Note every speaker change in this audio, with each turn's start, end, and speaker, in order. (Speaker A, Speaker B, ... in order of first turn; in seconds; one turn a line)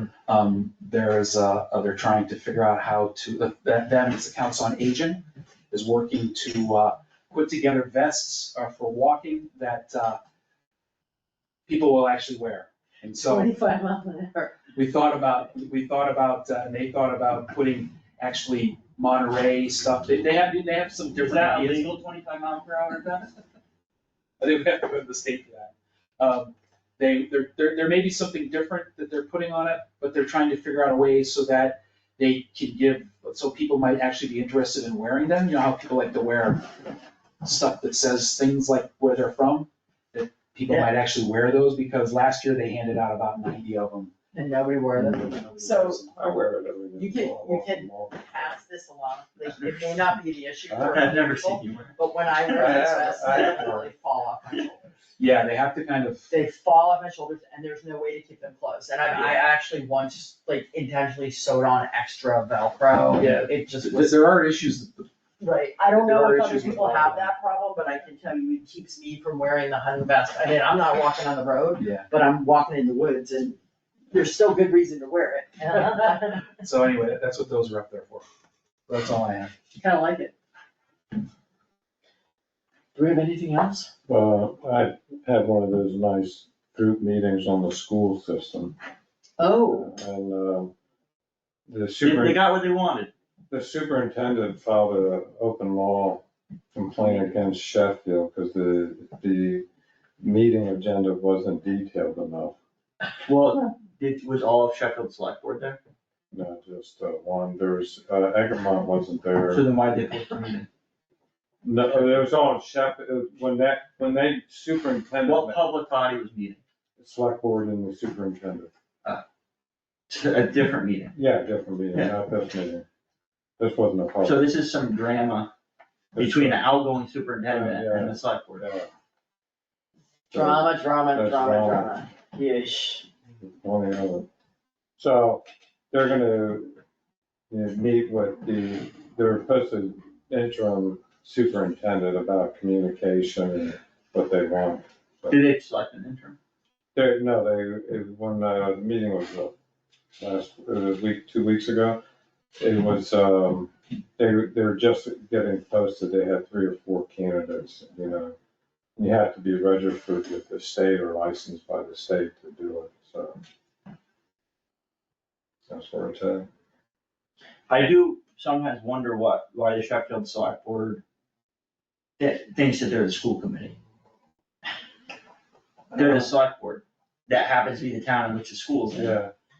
Speaker A: 0.3-10.2
Speaker A: 11.7-13.5
Speaker B: 13.2-14.6
Speaker A: 14.8-21.9
Speaker C: 21.2-23.2
Speaker A: 24.4-36.7
Speaker A: 37.4-44.1
Speaker B: 44.3-46.0
Speaker A: 45.0-46.3
Speaker D: 46.1-48.6
Speaker B: 47.0-54.9
Speaker D: 50.7-51.0
Speaker C: 50.9-52.8
Speaker D: 52.5-53.9
Speaker A: 55.2-56.3
Speaker B: 56.3-64.3
Speaker A: 59.1-59.4
Speaker A: 63.2-65.1
Speaker B: 65.4-73.6
Speaker A: 65.9-67.3
Speaker A: 71.8-72.1
Speaker B: 74.1-76.5
Speaker A: 76.6-78.3
Speaker A: 78.9-79.5
Speaker B: 79.8-80.3
Speaker B: 83.0-83.9
Speaker D: 84.1-88.8
Speaker B: 89.4-89.9
Speaker D: 89.7-90.7
Speaker D: 91.7-92.4
Speaker C: 92.0-93.1
Speaker D: 93.5-96.2
Speaker D: 96.7-99.7
Speaker C: 97.0-97.3
Speaker D: 100.2-102.6
Speaker C: 103.3-105.8
Speaker D: 106.3-109.6
Speaker C: 109.5-110.7
Speaker D: 111.6-115.6
Speaker C: 111.9-112.2
Speaker C: 115.2-116.6
Speaker D: 117.0-118.7
Speaker C: 120.1-121.2
Speaker D: 121.2-122.8
Speaker D: 123.6-124.5
Speaker C: 124.2-125.5
Speaker D: 126.2-126.6
Speaker C: 126.2-128.7
Speaker D: 127.5-128.9
Speaker D: 130.3-131.9
Speaker B: 130.3-133.1
Speaker D: 133.4-134.3
Speaker D: 135.0-136.8
Speaker D: 137.5-145.4
Speaker C: 145.3-146.4
Speaker D: 146.9-149.5
Speaker D: 150.2-152.0
Speaker D: 152.6-158.3
Speaker D: 159.0-163.4
Speaker D: 165.7-166.5
Speaker C: 167.7-171.0
Speaker C: 172.2-173.8
Speaker D: 175.9-176.3
Speaker C: 175.9-179.2
Speaker D: 178.9-179.3